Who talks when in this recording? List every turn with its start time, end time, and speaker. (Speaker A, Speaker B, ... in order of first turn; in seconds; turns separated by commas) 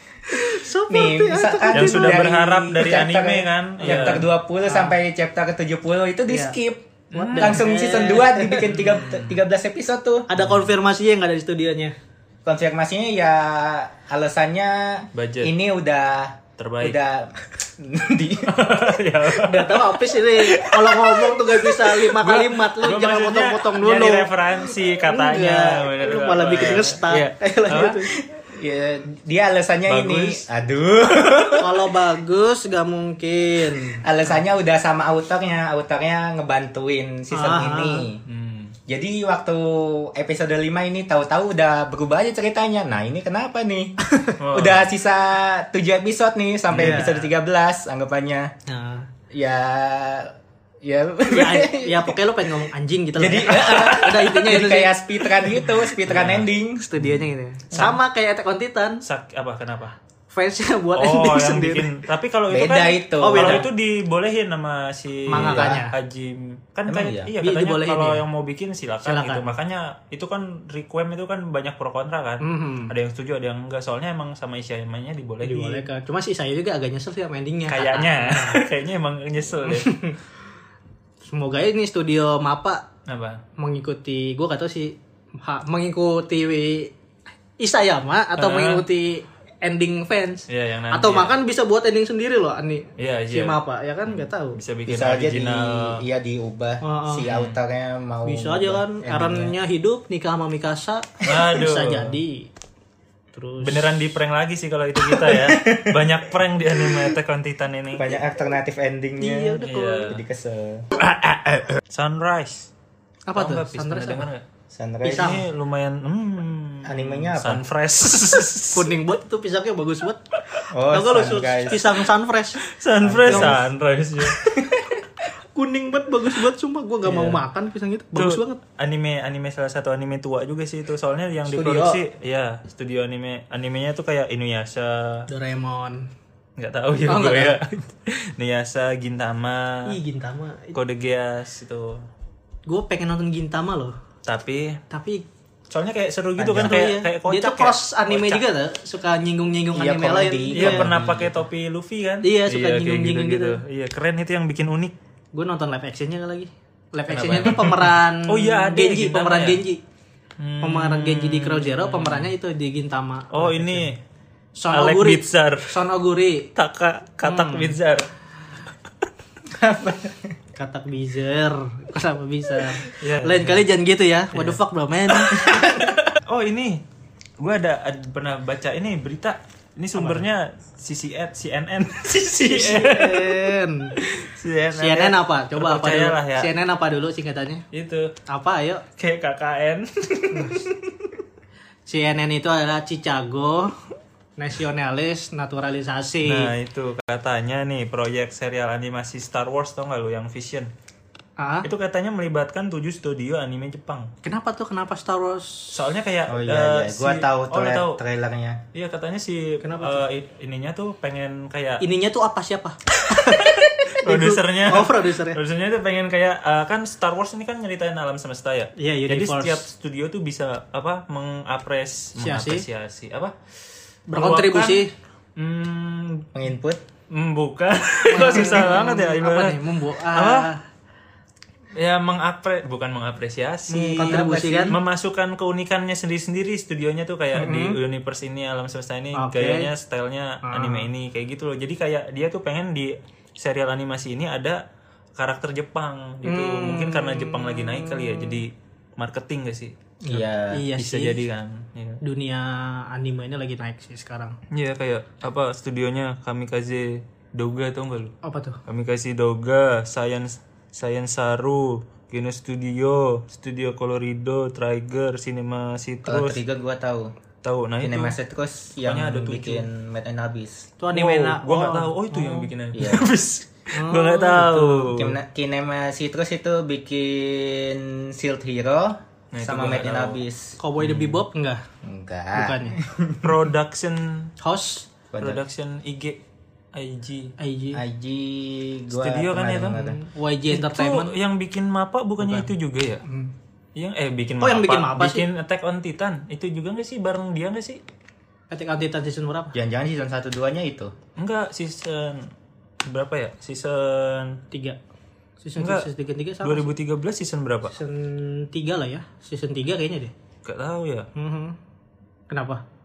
Speaker A: 0.3-2.6, Speaker B: 0.9-10.3, Speaker C: 1.7-4.3, Speaker A: 3.8-5.0, Speaker A: 6.3-6.5, Speaker A: 7.1-9.0, Speaker C: 7.1-7.6, Speaker C: 8.8-9.4, Speaker A: 10.3-11.9, Speaker C: 10.4-10.7, Speaker B: 12.4-18.8, Speaker C: 15.1-15.5, Speaker C: 16.6-17.0, Speaker C: 18.4-28.0, Speaker A: 19.3-24.3, Speaker A: 25.0-28.1, Speaker B: 28.3-31.7, Speaker C: 29.9-30.4, Speaker A: 31.6-34.0, Speaker B: 34.0-38.2, Speaker A: 37.3-38.0, Speaker C: 38.2-38.8, Speaker B: 38.9-43.9, Speaker C: 44.4-44.9, Speaker B: 44.5-48.5, Speaker C: 46.7-47.2, Speaker A: 46.7-47.2, Speaker A: 48.7-49.1, Speaker B: 49.3-52.3, Speaker A: 51.3-55.7, Speaker B: 53.2-56.8, Speaker C: 53.5-54.1, Speaker C: 56.0-56.5, Speaker A: 56.8-59.0, Speaker C: 59.0-60.0, Speaker A: 60.3-62.0, Speaker C: 60.9-75.9, Speaker B: 62.5-63.7, Speaker A: 63.2-63.6, Speaker A: 65.3-65.9, Speaker B: 65.3-65.8, Speaker B: 66.9-67.3, Speaker A: 67.4-68.2, Speaker A: 69.0-69.5, Speaker A: 72.4-72.9, Speaker A: 75.4-78.6, Speaker C: 77.7-80.0, Speaker A: 79.6-80.2, Speaker A: 81.3-82.8, Speaker C: 83.1-83.4, Speaker A: 83.6-86.9, Speaker A: 87.6-94.6, Speaker C: 88.3-88.8, Speaker C: 90.5-91.3, Speaker C: 93.0-96.0, Speaker B: 94.9-99.5, Speaker A: 96.8-97.3, Speaker C: 97.3-97.6, Speaker A: 98.2-102.5, Speaker C: 101.2-102.2, Speaker A: 103.3-103.9, Speaker C: 103.6-108.1, Speaker B: 105.0-106.2, Speaker B: 108.0-110.8, Speaker A: 109.2-110.1, Speaker C: 109.7-110.2, Speaker C: 111.0-112.7, Speaker A: 113.3-114.3, Speaker C: 113.3-114.4, Speaker B: 114.7-115.4, Speaker C: 115.0-118.9, Speaker A: 115.1-115.3, Speaker B: 116.8-117.6, Speaker A: 118.7-120.2, Speaker B: 120.7-121.8, Speaker A: 120.9-122.6, Speaker C: 122.6-124.4, Speaker B: 123.0-123.6, Speaker A: 123.2-123.6, Speaker B: 124.4-124.9, Speaker A: 125.5-128.6, Speaker C: 127.1-127.4, Speaker C: 128.1-135.3, Speaker A: 131.5-132.0, Speaker A: 135.3-136.1, Speaker C: 136.6-139.9, Speaker A: 137.1-137.6, Speaker A: 139.8-140.8, Speaker C: 140.7-142.1, Speaker A: 142.7-143.9, Speaker C: 144.2-144.8, Speaker A: 144.9-145.2, Speaker C: 145.7-148.4, Speaker B: 146.4-146.8, Speaker A: 146.6-150.9, Speaker B: 149.7-151.4, Speaker C: 150.5-154.9, Speaker A: 152.2-153.6, Speaker A: 155.3-159.8, Speaker C: 157.1-159.6, Speaker C: 160.4-162.3, Speaker A: 160.6-163.9, Speaker C: 163.3-164.0, Speaker A: 164.6-166.5, Speaker C: 164.7-165.7, Speaker C: 166.5-168.1, Speaker A: 167.2-167.8, Speaker B: 169.5-170.3, Speaker A: 170.6-175.9, Speaker C: 172.8-173.7, Speaker C: 174.3-176.8, Speaker C: 177.4-186.5, Speaker A: 179.9-180.2, Speaker A: 182.4-183.9, Speaker A: 184.8-187.6, Speaker C: 187.7-188.1, Speaker A: 188.3-188.8, Speaker C: 189.0-190.7, Speaker A: 190.3-190.7, Speaker A: 191.9-193.7, Speaker A: 194.4-196.5, Speaker C: 196.2-200.7, Speaker A: 201.4-201.7, Speaker C: 201.6-204.1, Speaker A: 204.2-205.8, Speaker C: 205.7-208.0, Speaker B: 206.3-208.6, Speaker C: 208.7-211.8, Speaker A: 209.6-210.0, Speaker A: 211.8-215.4, Speaker C: 213.1-223.3, Speaker A: 218.8-219.6, Speaker A: 222.2-222.6, Speaker A: 224.1-224.9, Speaker C: 224.1-224.8, Speaker C: 225.4-226.3, Speaker B: 226.3-226.8, Speaker C: 227.1-230.5, Speaker A: 228.1-230.6, Speaker C: 231.7-244.6, Speaker A: 233.7-234.8, Speaker B: 233.8-234.7, Speaker A: 237.3-237.8, Speaker A: 239.1-239.7, Speaker A: 240.4-240.9, Speaker C: 245.2-249.7, Speaker A: 246.2-248.4, Speaker A: 250.0-251.2, Speaker B: 250.1-250.7, Speaker C: 250.8-252.0, Speaker A: 252.0-254.4, Speaker C: 254.5-258.1, Speaker A: 258.2-258.6, Speaker C: 258.7-266.4, Speaker B: 266.1-267.1, Speaker C: 267.4-268.1, Speaker B: 267.8-270.7, Speaker C: 268.8-269.6, Speaker A: 270.8-272.5, Speaker C: 270.9-275.2, Speaker B: 272.7-273.1, Speaker A: 273.7-274.9, Speaker B: 274.8-280.6, Speaker C: 279.3-280.2, Speaker A: 280.6-281.6, Speaker C: 280.8-281.2, Speaker B: 281.8-283.4, Speaker A: 282.3-282.8, Speaker C: 283.2-284.3, Speaker A: 284.4-284.9, Speaker B: 285.1-285.4, Speaker C: 285.2-286.2, Speaker C: 286.7-287.3, Speaker A: 287.4-287.8, Speaker B: 287.7-289.9, Speaker C: 288.9-289.8, Speaker A: 289.7-291.1, Speaker C: 290.5-293.0, Speaker A: 292.2-292.5, Speaker C: 293.8-297.8, Speaker A: 294.4-295.2, Speaker A: 298.5-299.5, Speaker B: 299.5-300.9, Speaker C: 301.2-302.3, Speaker C: 302.9-304.4, Speaker A: 304.5-304.8, Speaker A: 305.4-306.7, Speaker C: 305.6-305.9, Speaker C: 306.4-307.8, Speaker A: 307.7-310.1, Speaker C: 310.4-311.1, Speaker A: 311.1-311.6, Speaker A: 312.3-312.6